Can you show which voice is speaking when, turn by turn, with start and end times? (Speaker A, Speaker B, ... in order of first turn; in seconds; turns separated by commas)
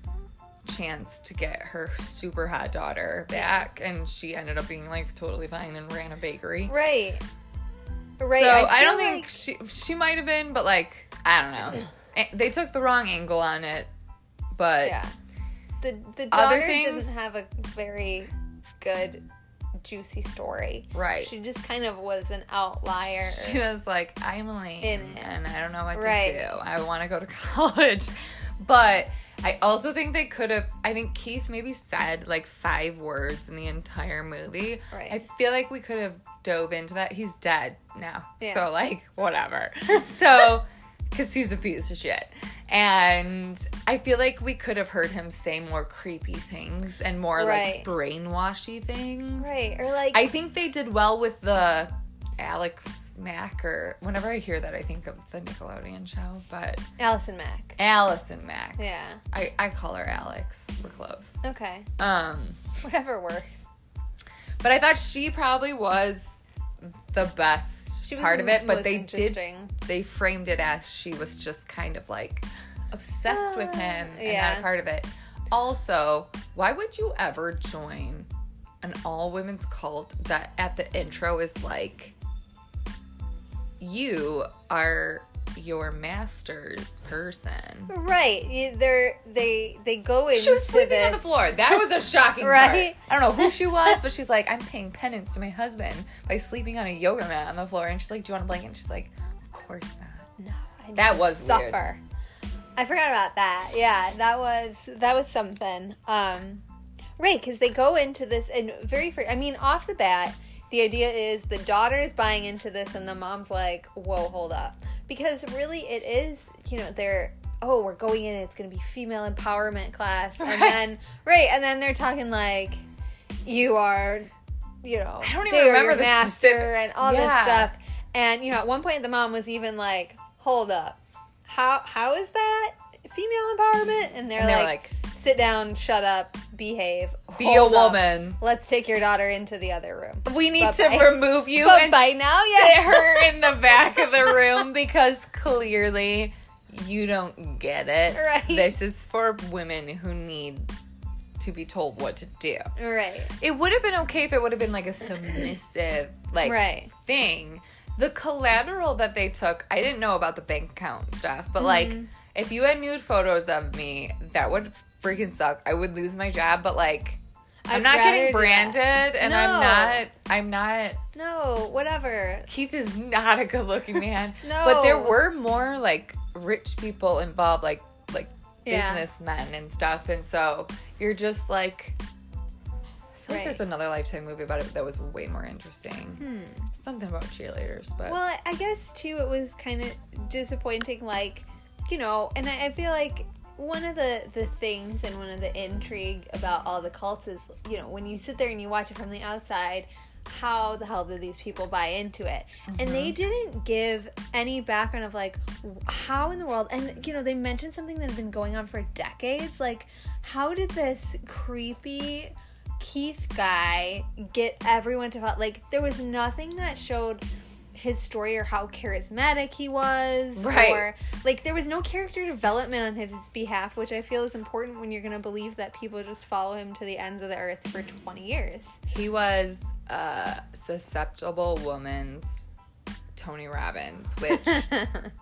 Speaker A: 0.7-6.7, Speaker B: 3.3-3.7, Speaker B: 6.7-7.2, Speaker B: 8.2-9.3, Speaker A: 8.3-13.9, Speaker A: 14.6-15.0, Speaker B: 14.8-15.1, Speaker B: 15.8-19.2, Speaker A: 16.3-17.2, Speaker B: 19.8-23.6, Speaker A: 20.9-21.3, Speaker A: 23.2-49.5, Speaker B: 24.8-25.4, Speaker B: 25.9-26.5, Speaker B: 34.9-35.2, Speaker B: 38.4-38.7, Speaker B: 47.4-47.9, Speaker B: 49.4-50.2, Speaker A: 50.1-56.8, Speaker B: 57.0-57.8, Speaker A: 57.8-61.4, Speaker B: 58.8-59.2, Speaker B: 61.4-61.9, Speaker A: 62.0-62.7, Speaker B: 62.8-63.6, Speaker A: 64.6-78.3, Speaker B: 68.1-69.7, Speaker B: 73.3-74.7, Speaker A: 78.8-82.1, Speaker A: 83.8-87.9, Speaker B: 87.9-91.6, Speaker A: 90.3-100.3, Speaker B: 92.4-94.0, Speaker B: 100.4-102.0, Speaker A: 101.0-101.8, Speaker B: 102.8-106.6, Speaker B: 107.2-122.8, Speaker A: 120.4-120.8, Speaker B: 123.5-124.3, Speaker B: 124.8-143.6, Speaker A: 125.2-127.7, Speaker A: 134.3-134.9, Speaker A: 137.4-138.4, Speaker A: 140.2-150.7, Speaker B: 148.1-148.7, Speaker A: 151.4-152.7, Speaker B: 152.8-153.3, Speaker A: 153.4-171.0, Speaker B: 156.4-156.9, Speaker B: 161.6-162.1, Speaker B: 167.7-170.0, Speaker B: 171.2-172.5, Speaker A: 172.5-182.0, Speaker B: 174.4-175.2, Speaker B: 178.7-179.1, Speaker A: 183.2-188.2, Speaker B: 183.3-183.6, Speaker B: 186.2-186.7, Speaker B: 188.0-228.8, Speaker A: 202.7-203.2, Speaker A: 220.4-220.9, Speaker A: 228.9-232.4, Speaker A: 233.2-234.7, Speaker B: 234.6-235.1